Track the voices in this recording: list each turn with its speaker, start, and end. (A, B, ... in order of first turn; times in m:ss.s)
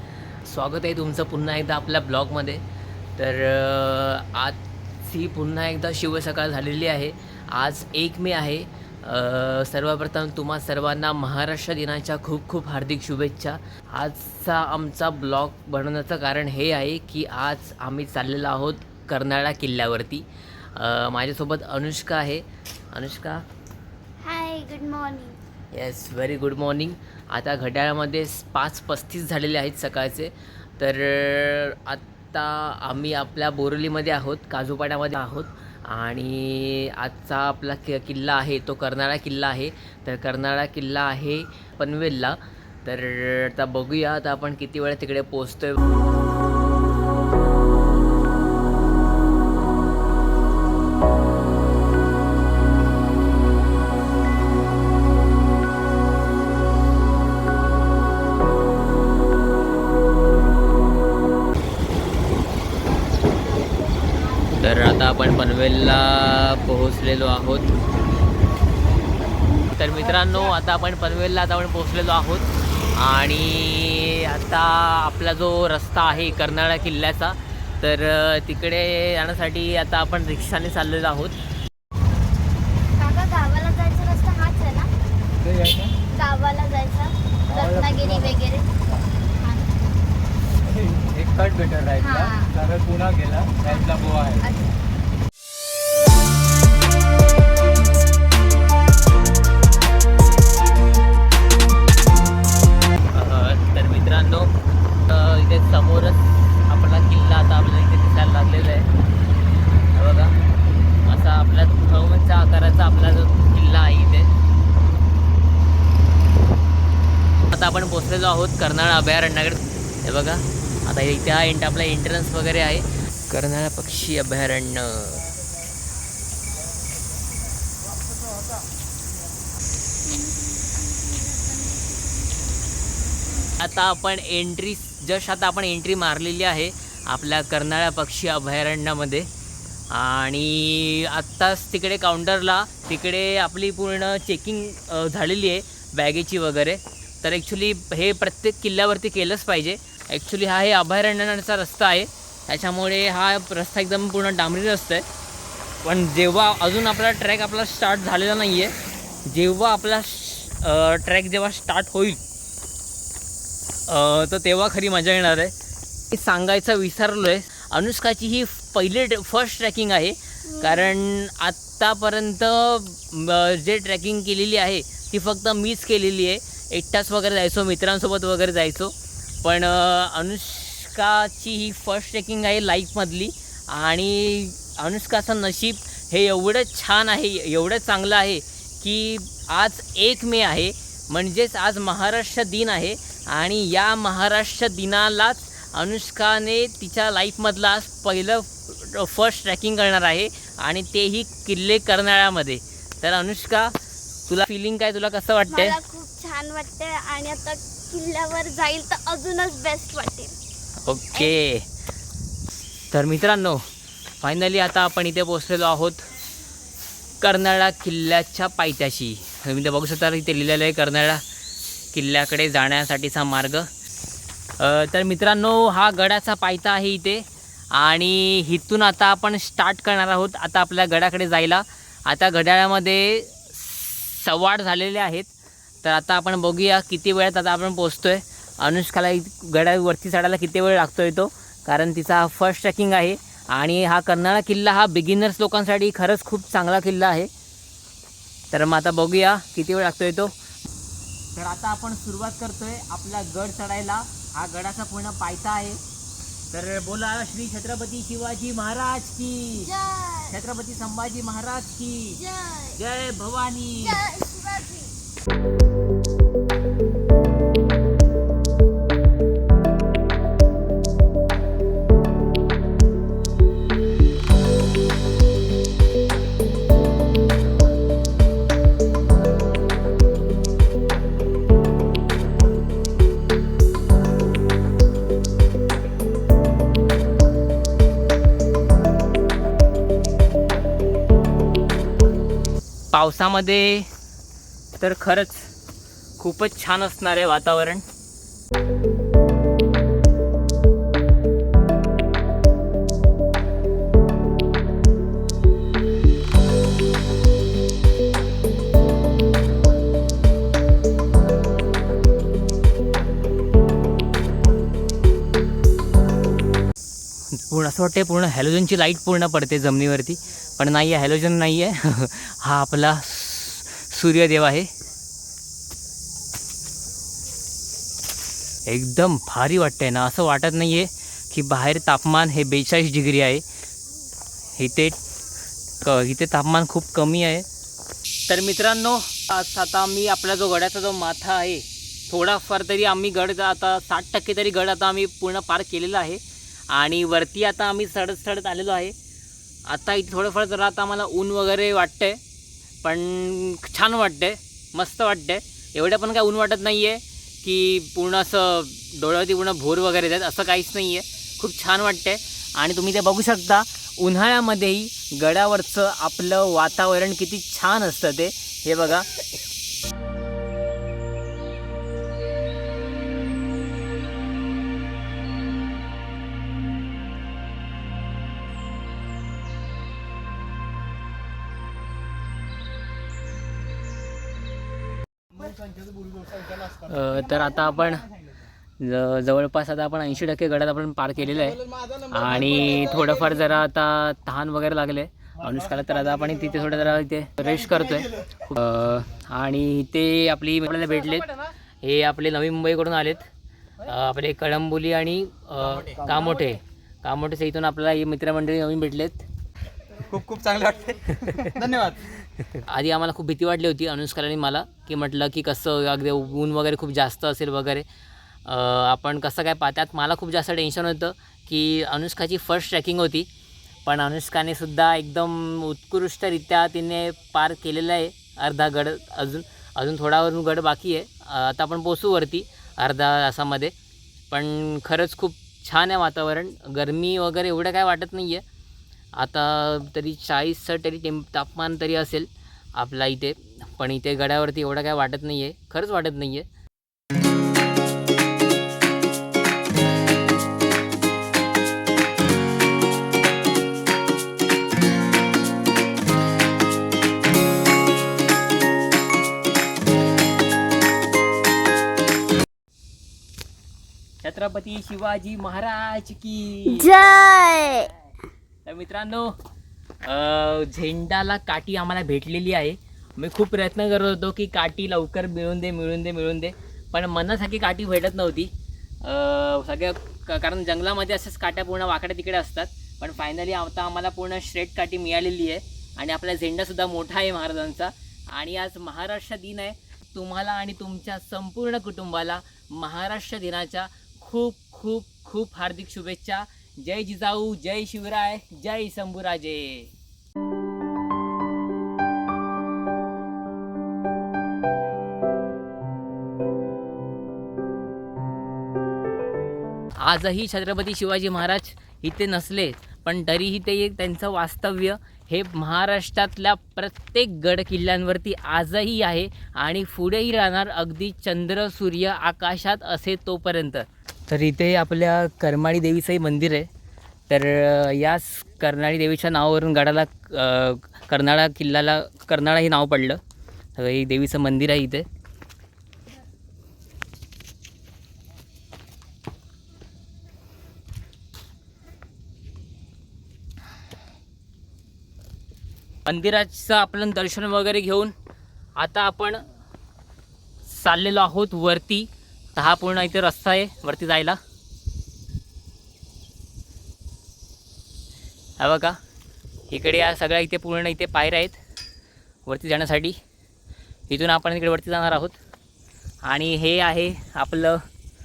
0:00.4-0:02.6 A
0:03.2-0:20.2 A
0:20.8-0:23.4 A
0:24.2-0:25.4 B
0:25.7-0:45.8 A
1:03.5-1:04.5 B
1:04.6-1:07.8 A
1:09.7-1:21.4 A
1:23.0-1:24.9 B
1:25.4-1:25.9 C
1:26.1-1:28.7 B
1:27.5-1:29.0 C
1:29.4-1:29.7 B
1:30.7-1:34.5 C
1:32.0-1:32.5 B
1:34.4-1:34.7 B
1:43.1-1:44.5 A
1:45.1-1:48.9 A
1:49.9-1:50.3 A
1:51.0-1:54.3 A
1:57.5-2:05.3 A
2:10.2-2:11.8 B
2:13.6-2:19.3 A
2:19.9-2:35.0 A
2:35.8-2:38.7 A
2:39.2-2:42.2 A
2:43.9-2:45.5 A
2:46.1-3:23.7 A
2:50.6-2:50.9 B
3:24.3-3:25.8 A
3:25.5-3:30.4 B
3:30.8-3:31.6 A
3:32.9-3:33.6 A
3:34.2-3:36.0 A
3:37.2-3:41.2 A
3:41.9-3:43.7 A
3:44.6-4:07.3 A
4:08.5-4:10.3 A
4:11.3-4:15.8 A
4:16.5-4:19.7 A
4:19.6-4:20.3 B
4:20.3-4:22.2 A
4:22.1-4:22.8 B
4:22.7-4:24.0 A
4:23.8-4:25.0 B
4:52.9-4:53.9 A
4:54.8-4:55.5 A
4:56.2-4:57.8 A
5:17.4-5:24.7 A
5:28.7-5:33.4 A
5:34.6-5:35.0 A
5:35.8-5:37.4 A
5:38.3-5:48.9 A
5:49.7-5:52.2 A
5:52.8-6:09.1 A
6:26.7-6:28.1 A
6:28.8-6:41.3 A
6:41.8-6:43.3 A
6:43.8-6:49.2 A
6:50.0-6:52.2 C
6:52.7-6:57.8 A
6:58.4-7:03.3 A
7:03.8-7:13.7 A
7:14.3-7:18.4 A
7:19.2-7:26.5 A
7:44.2-7:46.9 A
7:46.7-7:47.9 B
7:48.6-7:49.3 A
7:50.0-7:58.5 A
7:59.0-8:19.9 A
8:30.0-8:46.7 A
8:47.3-8:53.2 A
8:53.8-8:55.0 A
9:06.0-9:08.1 A
9:08.8-9:09.4 A
9:10.7-9:14.4 A
9:18.6-9:19.0 A
9:19.7-9:21.6 A
9:22.4-9:23.2 A
9:24.1-9:25.4 A
9:26.2-9:27.8 A